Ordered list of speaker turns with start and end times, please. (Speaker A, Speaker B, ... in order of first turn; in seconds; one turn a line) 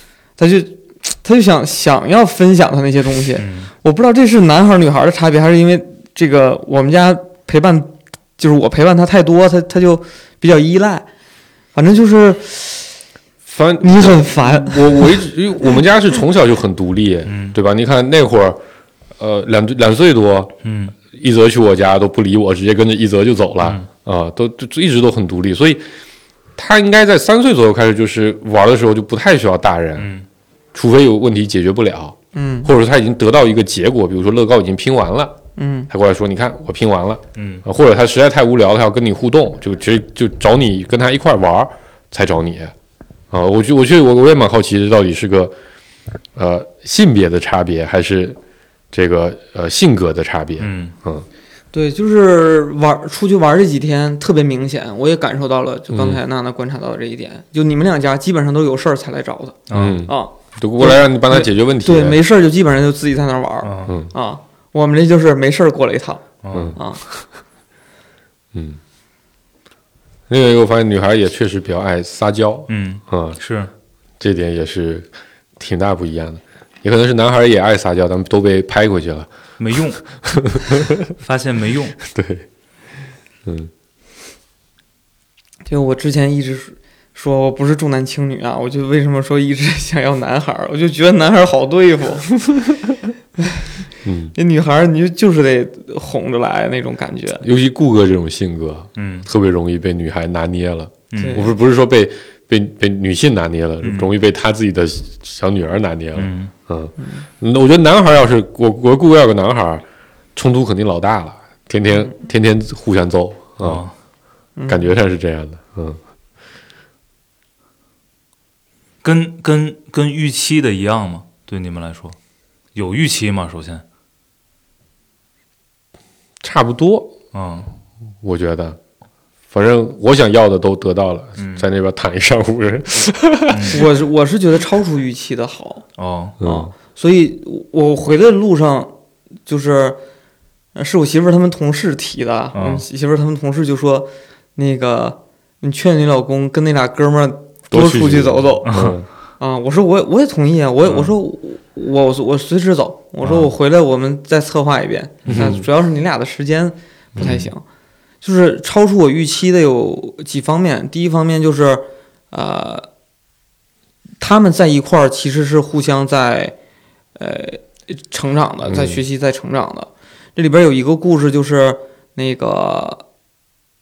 Speaker A: 0.4-11.1
Speaker B: 3.4-3.7
Speaker A: 11.7-12.9
Speaker C: 13.4-18.6
Speaker A: 13.8-15.3
Speaker B: 17.2-17.5
Speaker C: 19.2-20.5
Speaker B: 20.6-20.9
Speaker C: 21.1-25.8
Speaker B: 23.6-23.9
Speaker C: 26.6-30.1
Speaker B: 30.0-30.2
Speaker C: 30.7-35.4
Speaker A: 32.3-32.7
Speaker A: 35.6-35.9
Speaker C: 35.9-42.7
Speaker B: 37.4-37.6
Speaker C: 43.3-45.5
Speaker C: 46.4-48.4
Speaker C: 48.9-51.2
Speaker B: 50.6-50.9
Speaker A: 51.7-66.2
Speaker C: 55.9-56.2
Speaker B: 59.7-60.0
Speaker C: 59.7-62.2
Speaker B: 63.6-63.9
Speaker B: 66.4-66.8
Speaker C: 66.5-66.8
Speaker A: 66.8-67.0
Speaker C: 68.5-68.8
Speaker C: 70.3-73.4
Speaker B: 72.7-73.7
Speaker C: 74.2-79.3
Speaker B: 79.6-80.0
Speaker C: 80.2-81.1
Speaker B: 81.1-82.0
Speaker C: 82.0-82.4
Speaker C: 83.4-83.7
Speaker A: 85.7-92.3
Speaker C: 94.0-94.3
Speaker A: 94.3-97.4
Speaker C: 97.4-109.8
Speaker B: 99.0-99.3
Speaker B: 101.1-101.5
Speaker A: 101.2-101.5
Speaker B: 103.8-104.1
Speaker B: 106.2-106.5
Speaker C: 110.3-113.8
Speaker B: 113.6-113.9
Speaker A: 114.6-114.8
Speaker C: 114.7-116.0
Speaker B: 119.0-122.2
Speaker B: 122.7-123.8
Speaker C: 126.4-127.1
Speaker B: 127.3-127.7
Speaker C: 128.2-128.8
Speaker C: 129.5-133.8
Speaker B: 131.4-131.7
Speaker B: 133.5-133.9
Speaker A: 133.7-135.8
Speaker B: 136.0-136.4
Speaker C: 136.4-136.7
Speaker A: 136.4-138.9
Speaker A: 139.4-140.0
Speaker A: 140.7-148.8
Speaker B: 142.5-142.8
Speaker C: 147.7-149.1
Speaker B: 148.7-148.9
Speaker A: 149.4-157.6
Speaker B: 150.8-151.1
Speaker B: 153.2-153.5
Speaker C: 155.2-155.6
Speaker C: 157.2-157.4
Speaker A: 158.2-162.9
Speaker A: 164.2-166.5
Speaker A: 167.2-173.0
Speaker C: 168.6-169.0